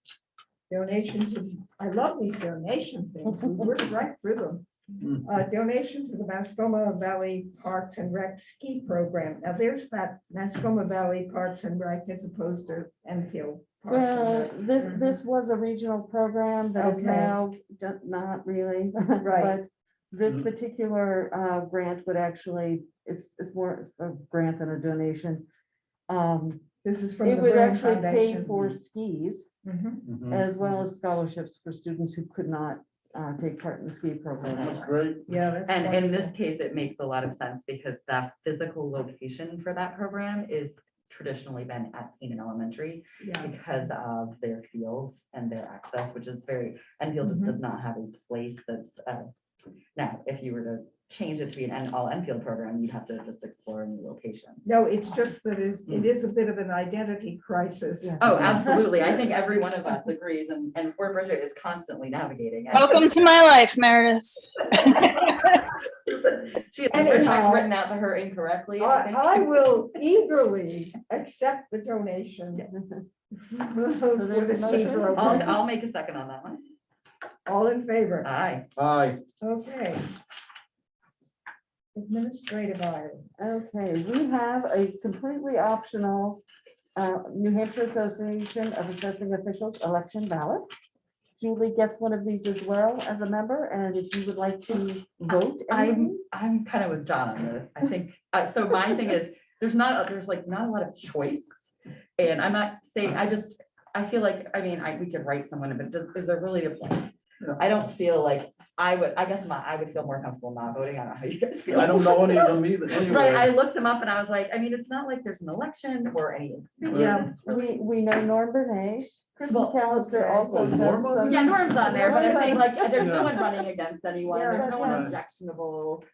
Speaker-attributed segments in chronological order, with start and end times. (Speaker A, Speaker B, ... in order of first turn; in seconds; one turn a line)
Speaker A: 0.7-4.7
Speaker B: 5.0-5.3
Speaker A: 5.2-15.2
Speaker C: 13.9-25.4
Speaker A: 16.8-17.4
Speaker A: 19.2-19.6
Speaker C: 26.1-26.6
Speaker A: 26.8-28.8
Speaker C: 27.2-29.5
Speaker A: 29.6-30.0
Speaker B: 30.1-30.8
Speaker C: 30.3-35.1
Speaker B: 34.5-35.3
Speaker A: 35.3-36.4
Speaker D: 35.7-49.3
Speaker A: 43.2-43.5
Speaker A: 47.2-47.6
Speaker D: 50.0-54.6
Speaker A: 54.6-58.7
Speaker C: 58.0-58.9
Speaker D: 58.2-63.1
Speaker E: 62.7-65.1
Speaker D: 66.1-69.8
Speaker A: 66.9-67.7
Speaker A: 68.8-72.7
Speaker A: 73.4-75.7
Speaker C: 74.1-75.6
Speaker D: 75.1-76.7
Speaker A: 77.5-78.3
Speaker D: 78.2-78.7
Speaker B: 78.8-79.2
Speaker A: 79.4-80.1
Speaker A: 82.0-83.6
Speaker C: 83.4-86.4
Speaker C: 87.0-90.6
Speaker C: 91.4-96.2
Speaker D: 95.2-117.8
Speaker B: 111.7-113.5
Speaker A: 116.9-117.3
Speaker B: 116.9-117.3
Speaker C: 117.4-123.4
Speaker D: 119.4-120.6
Speaker B: 120.5-121.9
Speaker D: 121.1-126.0
Speaker A: 122.0-122.6
Speaker B: 122.9-123.4
Speaker A: 124.2-124.9
Speaker C: 124.5-125.2
Speaker B: 124.8-125.2